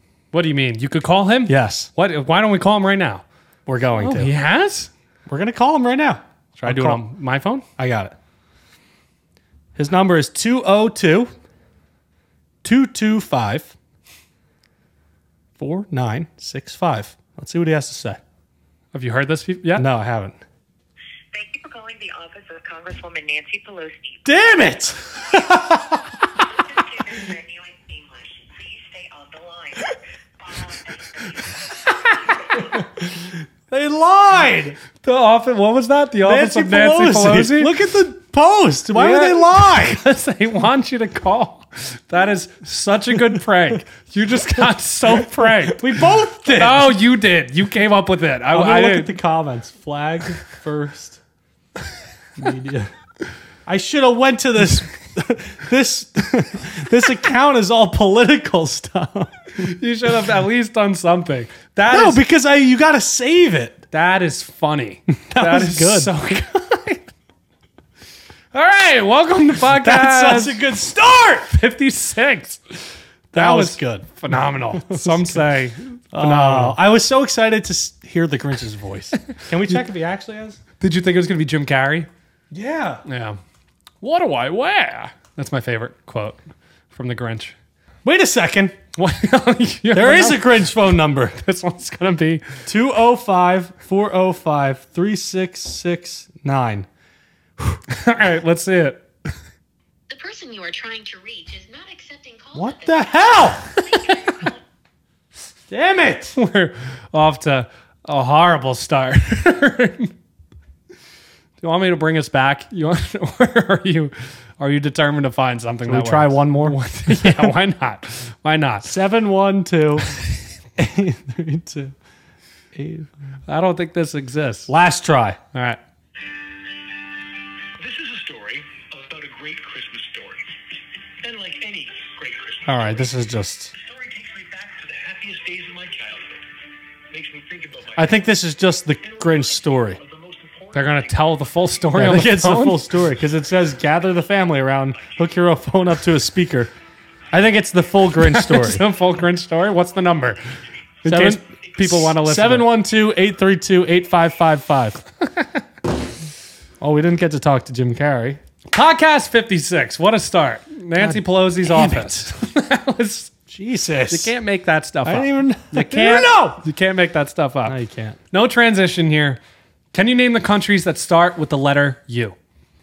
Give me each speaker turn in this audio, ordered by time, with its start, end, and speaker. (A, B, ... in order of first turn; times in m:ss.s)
0:00.3-0:03.2 A
0:01.5-0:01.9 B
0:03.7-0:04.3 B
0:04.0-0:04.9 A
0:05.3-0:07.0 B
0:06.6-0:07.7 A
0:07.8-0:08.2 B
0:09.8-0:11.3 B
0:12.6-0:13.7 B
0:15.6-0:18.2 B
0:18.9-0:19.9 A
0:19.8-0:20.4 B
0:21.3-0:32.8 C
0:24.2-0:26.1 B
0:33.7-0:34.8 B
0:35.0-0:37.7 A
0:36.2-0:40.0 B
0:38.9-0:49.2 A
0:45.1-0:47.0 B
0:48.5-0:51.2 B
0:52.4-0:52.9 B
0:53.7-0:59.5 B
0:59.6-1:02.2 A
1:01.9-1:03.8 B
1:03.9-1:07.1 A
1:05.1-1:06.4 B
1:08.5-1:10.7 A
1:09.7-1:11.5 B
1:11.4-1:12.8 A
1:13.3-1:15.5 B
1:13.3-1:16.8 A
1:16.1-1:20.6 B
1:20.8-1:22.1 A
1:22.5-1:23.0 B
1:23.0-1:23.4 A
1:24.0-1:27.6 A
1:28.0-1:28.8 B
1:29.0-1:32.5 A
1:29.9-1:31.4 B
1:32.6-1:36.9 B
1:37.9-1:39.0 A
1:40.1-1:44.6 C
1:42.5-1:43.7 B
1:43.8-1:44.4 A
1:45.7-1:46.4 B
1:46.3-1:50.1 A
1:51.6-1:58.9 A
1:55.8-1:57.5 B
1:58.8-2:00.2 B
2:00.8-2:01.9 B
2:02.8-2:03.1 B
2:03.5-2:04.7 A
2:04.7-2:05.4 B
2:05.5-2:05.8 A
2:07.8-2:10.5 D
2:11.2-2:12.8 D
2:12.6-2:13.8 B
2:13.8-2:16.4 D
2:17.1-2:18.2 D
2:18.0-2:20.0 B
2:19.0-2:21.0 D
2:20.7-2:22.9 A
2:21.9-2:26.7 B
2:27.3-2:28.8 B
2:28.1-2:30.4 A
2:31.0-2:32.7 A
2:31.0-2:35.0 B
2:36.8-2:38.4 B
2:38.7-2:43.3 A
2:41.0-2:42.3 B
2:43.5-2:44.3 B
2:44.1-2:47.8 A
2:45.0-2:46.6 B
2:47.6-2:48.2 B
2:48.3-2:49.4 A
2:49.9-2:52.4 A